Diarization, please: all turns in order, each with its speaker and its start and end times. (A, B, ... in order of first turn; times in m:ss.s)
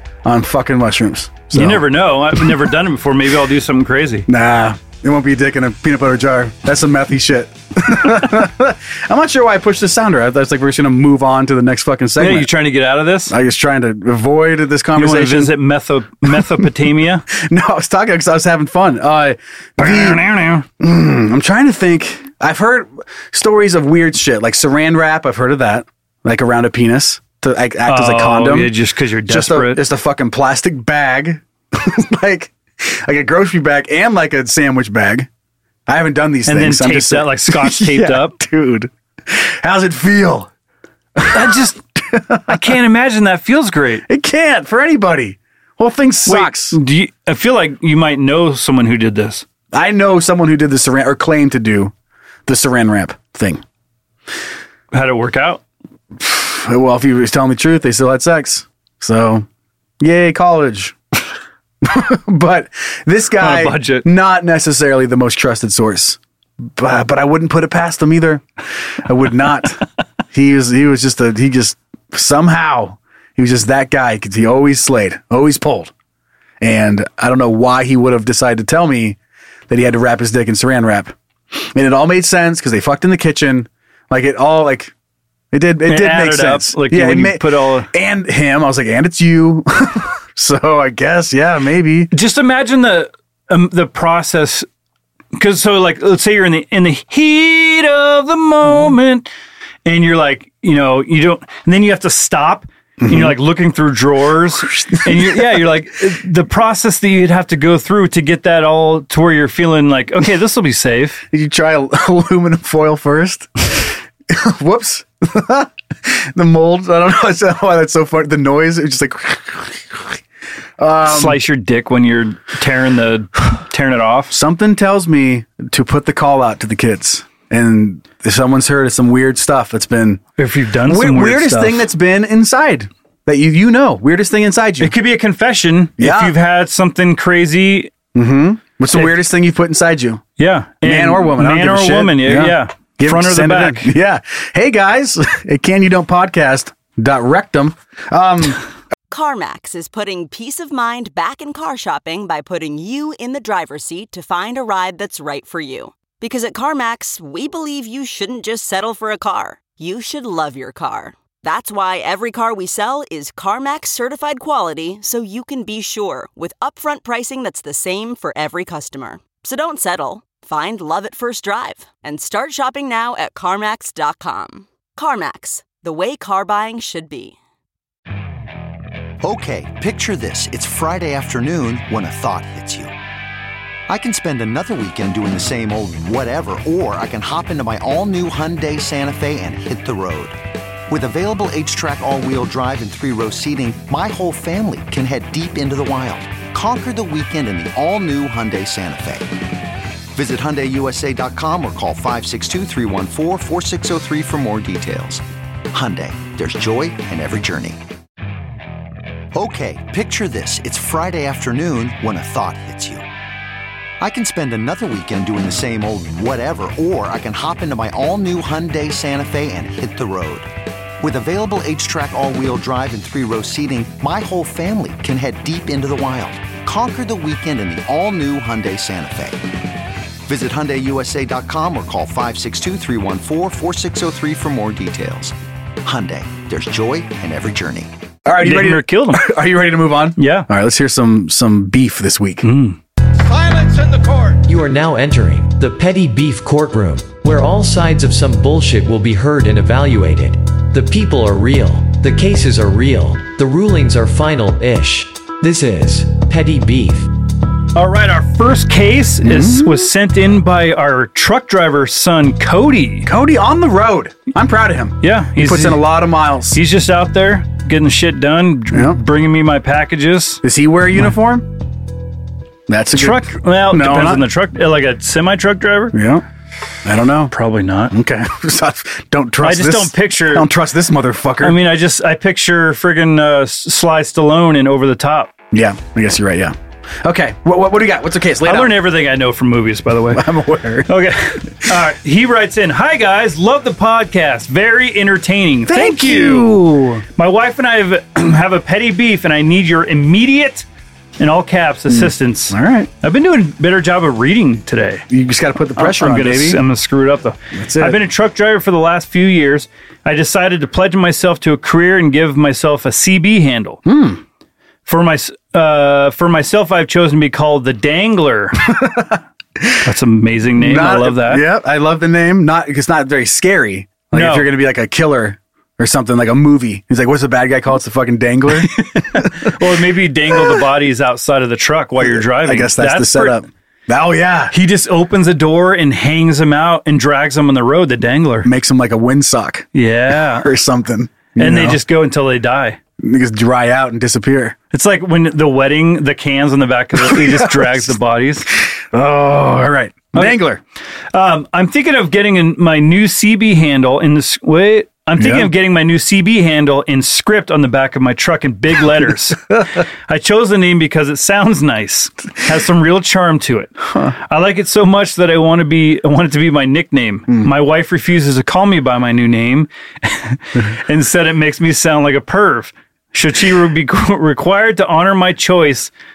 0:00.2-0:01.8 A
0:01.5-0:04.2 B
0:04.3-0:12.5 A
0:12.2-0:13.3 B
0:13.3-0:15.5 A
0:15.0-0:17.2 B
0:17.3-0:20.2 A
0:19.8-0:20.6 B
0:20.8-0:28.7 A
0:27.8-0:29.8 B
0:29.3-0:35.3 A
0:35.9-0:40.5 A
0:36.4-0:38.4 B
0:41.2-0:42.6 A
0:41.3-0:41.8 B
0:42.4-0:44.0 B
0:44.1-0:46.8 A
0:46.2-0:49.4 B
0:49.7-0:51.9 A
0:52.5-0:53.6 A
0:54.9-0:55.6 B
0:56.2-0:59.5 A
1:00.0-1:01.0 A
1:01.8-1:08.4 A
1:03.4-1:04.0 B
1:09.0-1:15.9 A
1:16.6-1:19.2 A
1:19.7-1:24.9 A
1:25.5-1:32.1 A
1:25.9-1:27.9 B
1:32.1-1:34.6 B
1:35.3-1:39.3 B
1:39.8-1:51.2 B
1:43.0-1:43.4 A
1:44.8-1:45.6 A
1:51.3-2:00.2 A
2:00.8-2:01.4 A
2:01.0-2:04.3 B
2:04.3-2:10.2 A
2:10.4-2:11.9 B
2:10.8-2:14.9 A
2:14.8-2:17.9 B
2:16.0-2:16.3 A
2:18.1-2:20.2 A
2:18.9-2:19.2 B
2:20.4-2:23.9 B
2:20.8-2:28.6 A
2:29.1-2:57.4 C
2:59.2-3:02.9 D
3:03.9-3:10.4 D
3:10.9-3:19.3 D
3:20.1-3:27.8 D
3:29.3-3:33.0 D
3:34.0-3:40.5 D
3:41.0-3:49.4 D
3:50.2-3:57.9 D
3:58.2-4:02.5 A
3:58.4-3:59.4 B
4:00.2-4:00.5 B
4:02.4-4:02.8 B
4:03.4-4:17.1 E
4:17.7-4:23.1 B
4:19.2-4:19.8 A
4:23.0-4:26.6 A
4:25.0-4:25.8 B
4:26.5-4:30.4 B
4:28.7-4:29.0 A
4:30.4-4:31.5 A
4:32.7-4:34.2 A
4:32.9-4:35.9 B
4:35.9-4:36.2 A
4:36.8-4:37.3 A
4:37.3-4:37.9 B
4:37.9-4:41.6 A
4:39.4-4:40.5 B
4:41.4-4:45.3 B
4:45.5-4:48.8 A
4:48.4-4:50.3 B
4:50.1-4:50.9 A
4:50.9-4:56.6 B
4:55.7-4:57.0 A
4:57.2-5:00.6 B
5:01.2-5:05.0 B
5:01.9-5:02.9 A
5:05.1-5:06.6 A
5:05.8-5:13.8 B
5:07.5-5:08.0 A
5:13.8-5:14.2 A
5:14.8-5:18.7 B
5:18.7-5:19.8 A
5:19.8-5:21.4 B
5:20.6-5:29.3 A
5:24.1-5:24.5 B
5:28.6-5:33.4 B
5:30.3-5:30.6 A
5:32.0-5:34.5 A
5:34.5-5:38.5 B
5:38.4-5:39.7 A
5:39.7-5:40.5 B
5:40.3-5:41.8 A
5:41.4-5:42.8 B
5:43.0-5:44.6 A
5:44.7-5:48.5 B
5:47.0-5:47.9 A
5:48.9-5:50.6 A
5:51.1-6:15.9 B
5:55.2-5:55.5 A